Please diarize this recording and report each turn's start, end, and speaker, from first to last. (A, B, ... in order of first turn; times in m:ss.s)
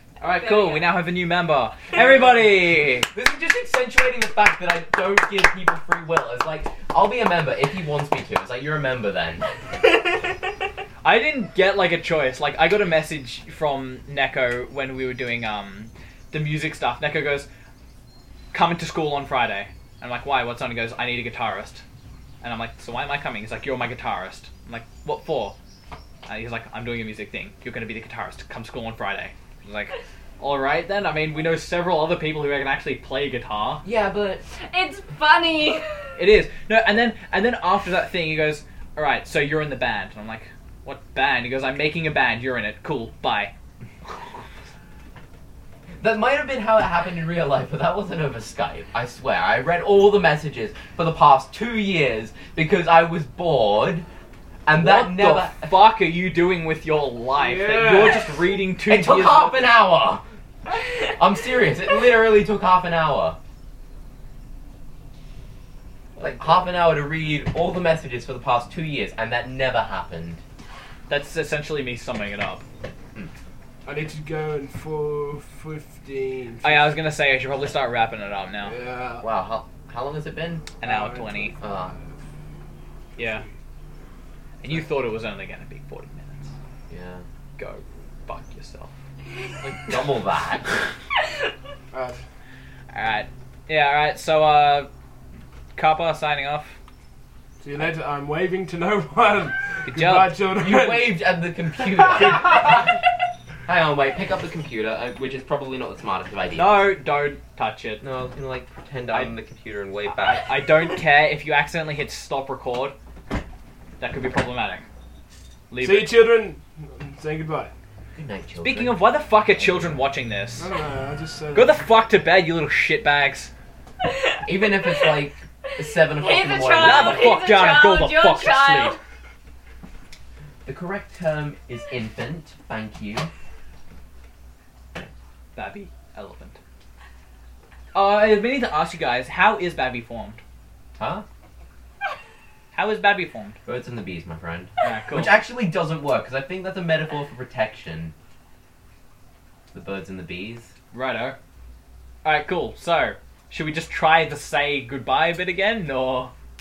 0:00.2-0:03.1 A
0:00.2-0:00.9 B
0:01.9-0:02.3 C
0:03.0-0:09.5 C
0:11.0-0:17.5 A
0:18.5-0:21.8 A
0:22.4-0:25.5 A
0:26.2-0:33.8 A
0:33.8-0:34.4 C
0:34.5-0:36.0 B
0:36.2-0:43.5 A
0:46.0-0:54.0 C
0:54.6-0:55.9 C
0:54.7-0:59.7 A
0:57.4-0:58.5 D
0:58.8-1:00.2 C
1:01.2-1:03.4 C
1:06.2-1:10.4 C
1:11.1-1:12.6 A
1:13.8-1:16.9 D
1:16.6-1:18.8 A
1:18.6-1:19.2 D
1:19.2-1:20.7 C
1:20.8-1:21.6 A
1:20.8-1:22.0 D
1:21.6-1:21.9 C
1:23.2-1:23.4 A
1:23.2-1:23.5 D
1:24.6-1:26.5 A
1:26.9-1:27.2 C
1:27.6-1:28.9 A
1:29.6-1:30.8 C
1:31.9-1:32.2 D
1:32.9-1:34.9 A
1:35.7-1:36.8 A
1:37.6-1:41.2 D
1:39.8-1:40.3 A
1:40.4-1:42.9 C
1:42.0-1:42.7 D
1:43.6-1:46.8 C
1:46.5-1:48.0 A
1:48.0-1:50.4 C
1:50.0-1:52.9 A
1:54.0-1:54.8 A
1:55.7-1:56.2 A
1:55.8-1:57.7 D
1:58.1-2:00.0 C
1:58.6-2:00.7 A
2:00.6-2:01.8 D
2:01.5-2:03.5 A
2:04.0-2:04.4 B
2:04.4-2:07.4 C
2:06.1-2:09.0 B
2:06.7-2:08.9 A
2:10.6-2:13.3 C
2:15.5-2:16.6 A
2:17.9-2:20.4 A
2:21.0-2:21.2 C
2:22.7-2:23.6 A
2:23.6-2:28.1 C
2:24.8-2:25.3 A
2:29.7-2:30.7 C
2:30.9-2:31.4 A
2:32.2-2:36.3 A